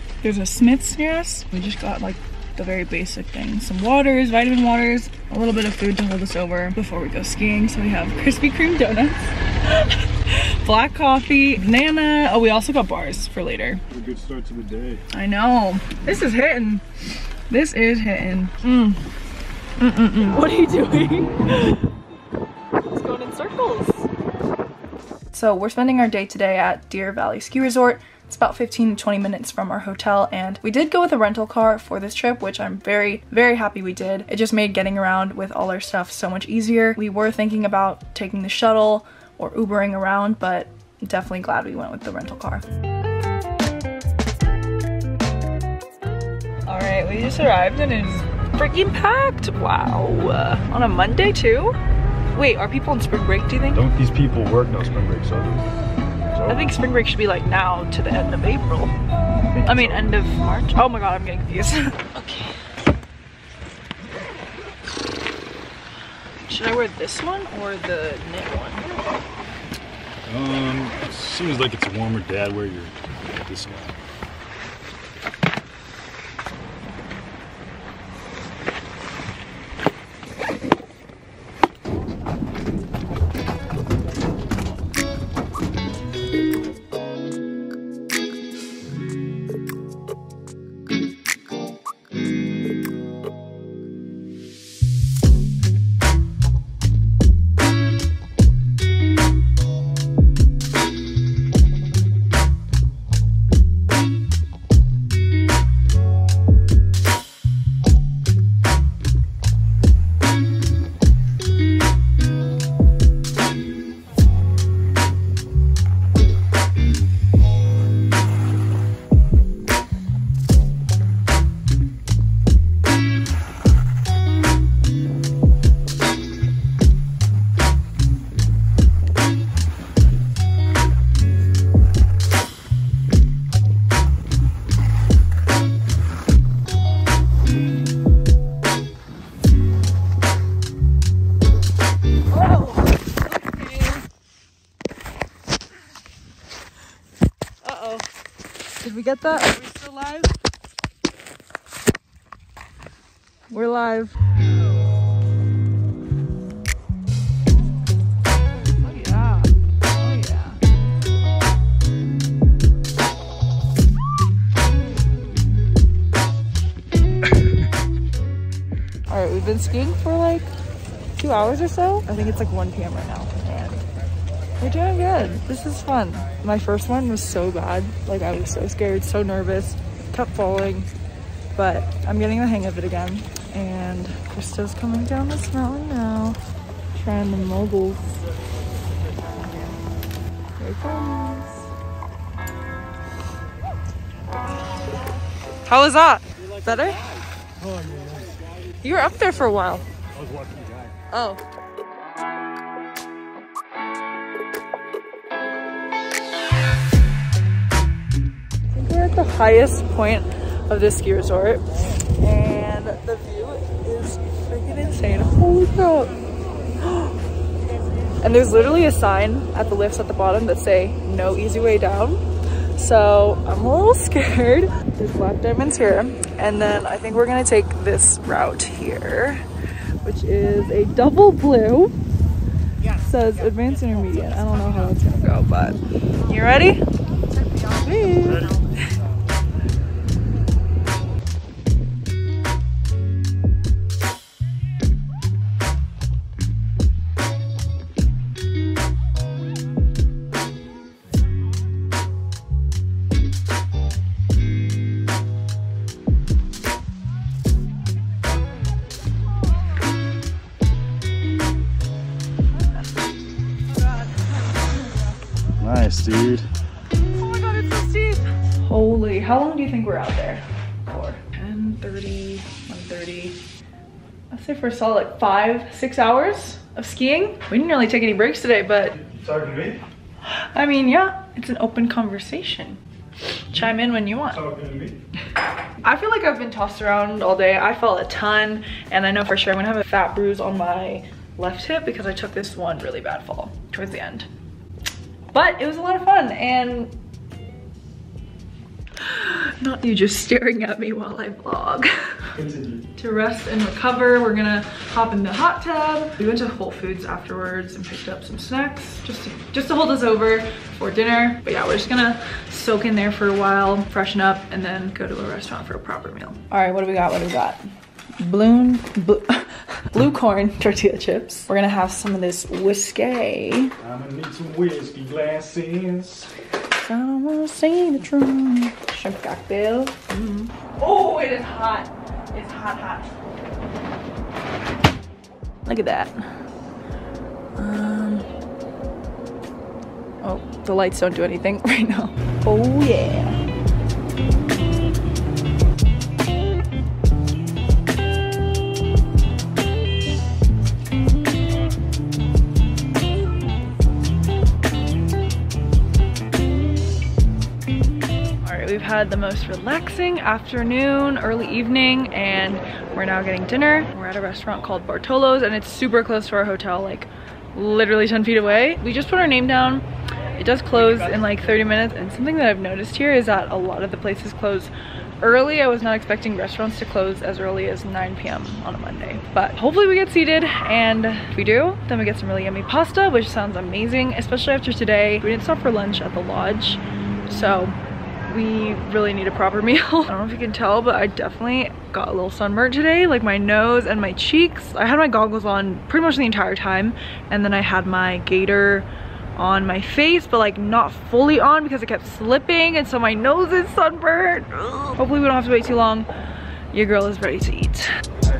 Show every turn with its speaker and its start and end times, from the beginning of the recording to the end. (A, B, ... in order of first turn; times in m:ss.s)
0:00.2-0:13.8 A
0:13.9-0:15.0 B
0:15.1-0:16.8 A
0:17.5-0:19.0 A
0:19.8-0:21.9 A
0:22.9-0:24.1 A
0:25.3-0:42.6 A
0:46.6-0:51.8 A
0:52.3-0:53.8 A
0:53.7-0:56.8 B
0:56.5-0:58.9 A
0:59.5-1:00.2 B
0:59.6-1:02.6 A
1:06.4-1:08.9 A
1:10.2-1:14.0 B
2:22.3-2:24.0 A
2:27.6-2:28.0 A
2:28.8-2:30.3 A
2:33.5-2:34.2 A
2:38.8-2:40.6 A
2:49.1-2:50.5 A
2:51.2-2:53.8 A
2:54.6-3:00.9 A
3:01.6-3:06.4 A
3:06.9-3:08.2 A
3:10.6-3:11.7 A
3:15.7-3:17.0 A
3:17.6-3:18.4 B
3:18.8-3:19.8 A
3:20.1-3:21.0 B
3:21.1-3:21.4 A
3:28.7-3:36.2 A
3:36.8-3:37.2 A
3:38.2-3:42.2 A
3:42.8-3:49.4 A
3:50.0-3:51.9 A
3:52.9-3:56.8 A
3:57.8-3:58.9 A
4:25.6-4:26.5 B
4:27.1-4:33.4 A
4:34.3-4:39.0 A
4:39.0-4:39.8 B
4:40.2-4:42.8 A
4:43.5-4:44.4 A
4:44.3-4:45.0 B
4:45.8-4:54.3 A
4:55.3-4:56.9 A
4:59.0-5:02.3 A
5:02.4-5:02.9 B
5:03.0-5:17.6 A
5:18.2-5:23.8 A
5:23.8-5:26.3 B
5:26.7-5:33.1 A
5:35.6-5:36.3 A
5:37.6-5:38.3 A
5:40.2-5:43.4 A
5:58.4-6:27.8 A
6:28.3-6:46.1 A
6:46.7-6:47.9 A